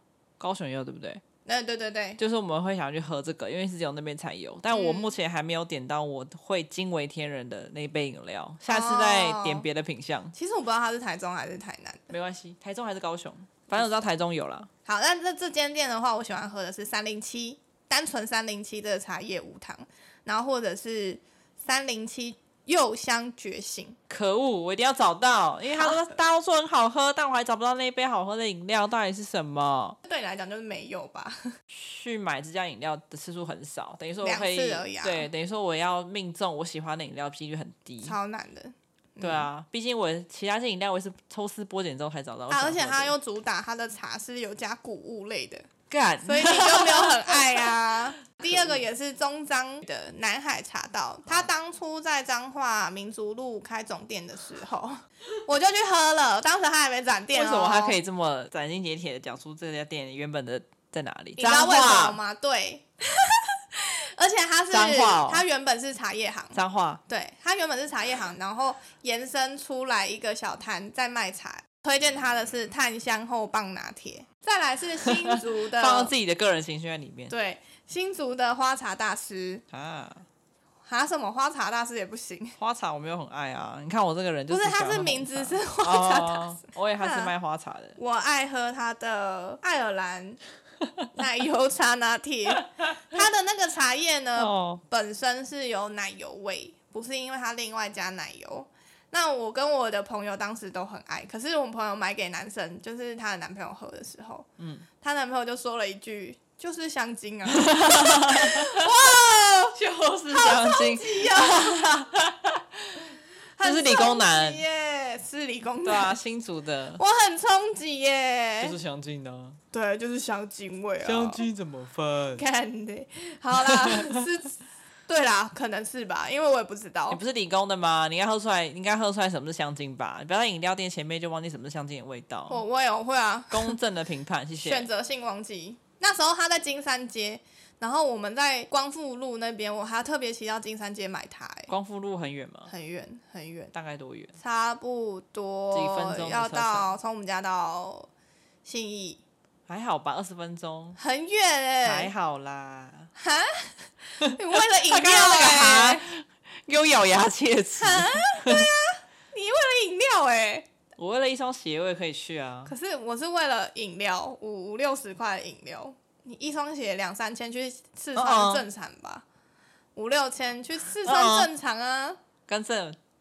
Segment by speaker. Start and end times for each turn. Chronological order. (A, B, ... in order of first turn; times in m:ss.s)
0:00.4-0:01.2 A
0:01.4-0:02.2 B
0:02.2-0:10.3 A
0:04.7-0:05.1 B
0:08.7-0:09.6 B
0:10.3-0:12.1 B
0:12.1-0:14.7 A
0:14.8-0:24.0 B
0:24.1-0:30.0 A
0:30.0-0:31.6 B
0:31.7-0:38.2 A
0:34.2-0:35.3 B
0:38.0-0:39.5 B
0:39.2-0:43.1 A
0:42.5-0:45.7 B
0:45.9-0:47.7 A
0:46.2-0:58.0 B
0:48.5-0:48.7 A
0:57.3-1:02.2 A
1:01.4-1:16.1 B
1:04.7-1:05.4 A
1:06.5-1:07.0 A
1:15.2-1:17.3 A
1:17.3-1:19.6 B
1:19.7-1:20.2 A
1:20.8-1:22.6 B
1:22.6-1:28.0 A
1:24.5-1:27.3 B
1:28.0-1:30.4 B
1:31.1-1:44.5 B
1:34.4-1:34.8 A
1:44.6-1:44.8 A
1:45.0-1:49.8 B
1:47.5-1:48.9 A
1:49.7-1:54.6 A
1:50.3-1:51.9 B
1:53.6-1:56.2 B
1:55.8-1:57.0 A
1:57.0-1:58.8 B
1:58.6-1:59.6 A
1:59.7-2:01.4 B
2:01.0-2:02.4 A
2:02.4-2:07.2 B
2:03.6-2:04.2 A
2:07.1-2:12.6 A
2:12.5-2:13.7 B
2:13.5-2:14.9 A
2:14.6-2:21.7 B
2:21.7-2:22.7 A
2:22.7-2:23.7 B
2:23.7-2:24.3 A
2:24.4-2:28.1 B
2:25.7-2:26.9 A
2:28.6-2:29.2 B
2:29.7-2:31.0 A
2:31.0-2:32.1 B
2:31.8-2:33.1 A
2:33.2-2:36.1 B
2:34.2-2:38.7 A
2:37.8-2:40.7 B
2:41.0-2:42.7 A
2:42.6-2:49.2 B
2:48.2-2:48.6 A
2:50.0-2:52.2 B
2:51.0-2:51.5 A
2:52.5-2:53.0 A